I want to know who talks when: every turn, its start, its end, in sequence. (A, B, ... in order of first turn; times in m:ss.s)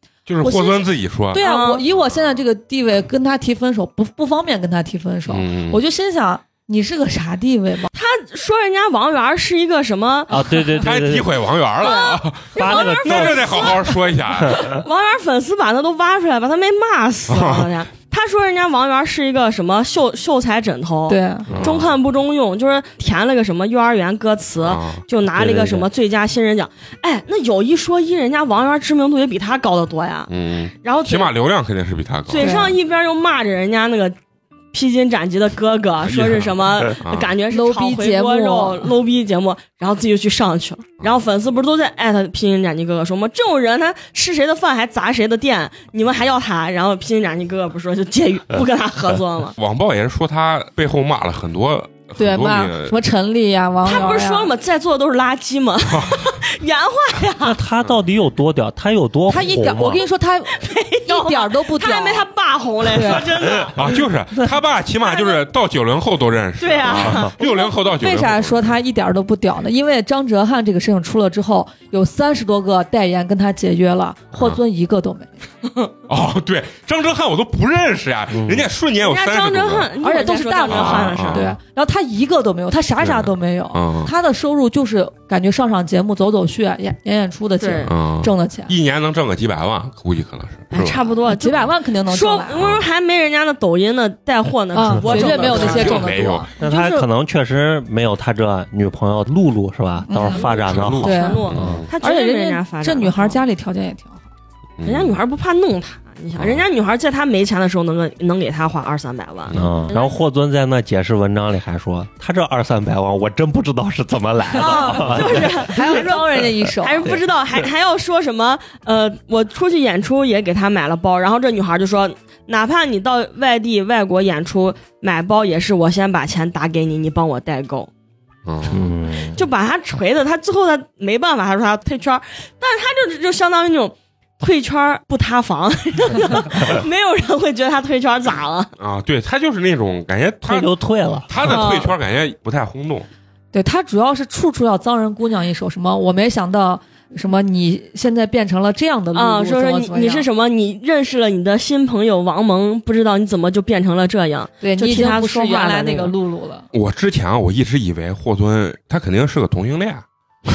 0:00.3-0:01.4 A
0:00.4-0:07.9 B
0:01.4-0:01.8 C
0:01.9-0:02.4 A
0:05.3-0:05.8 A
0:07.9-0:10.8 C
0:10.3-0:11.3 D
0:10.8-0:14.8 A
0:11.8-0:13.0 B
0:11.8-0:31.3 C
0:12.6-0:13.5 D
0:14.4-0:14.7 D
0:17.3-0:17.7 A
0:21.1-0:21.5 B
0:21.5-0:22.0 A
0:24.6-0:25.0 A
0:25.4-0:25.9 D
0:30.3-0:32.6 A
0:32.3-0:34.2 C
0:32.4-0:32.8 B
0:34.7-0:49.5 C
0:36.0-0:37.3 A
0:37.5-0:38.9 B
0:49.6-0:53.0 A
0:52.2-0:54.5 B
0:53.8-0:57.6 C
0:55.9-0:56.3 A
0:57.4-1:00.0 D
0:59.3-1:02.3 B
1:00.5-1:03.8 C
1:02.9-1:03.3 B
1:03.7-1:08.7 A
1:05.0-1:05.4 C
1:06.6-1:07.4 C
1:06.9-1:07.3 D
1:07.4-1:15.3 B
1:14.4-1:14.6 A
1:16.1-1:19.9 A
1:18.3-1:18.7 D
1:19.0-1:21.6 C
1:20.0-1:28.7 B
1:20.7-1:21.6 A
1:23.0-1:24.1 A
1:27.6-1:27.9 C
1:27.9-1:31.1 A
1:30.7-1:36.1 C
1:31.3-1:32.6 B
1:32.6-1:32.9 A
1:34.7-1:37.1 B
1:35.1-1:36.5 A
1:36.6-1:41.9 D
1:40.1-1:40.4 B
1:40.2-1:43.4 C
1:40.4-1:41.9 A
1:41.0-1:41.5 B
1:42.0-1:44.2 B
1:44.8-1:45.2 A
1:44.8-1:50.2 C
1:46.4-1:46.6 A
1:49.5-1:49.8 A
1:49.5-1:56.0 D
1:54.6-1:57.2 B
1:54.6-2:07.9 C
2:08.5-2:08.9 A
2:08.7-2:09.4 D
2:09.3-2:18.7 C
2:18.8-2:20.7 A
2:20.5-2:21.7 D
2:21.3-2:23.1 A
2:21.4-2:21.9 B
2:23.5-2:30.3 B
2:29.2-2:36.1 C
2:34.6-2:36.7 B
2:36.7-2:40.0 A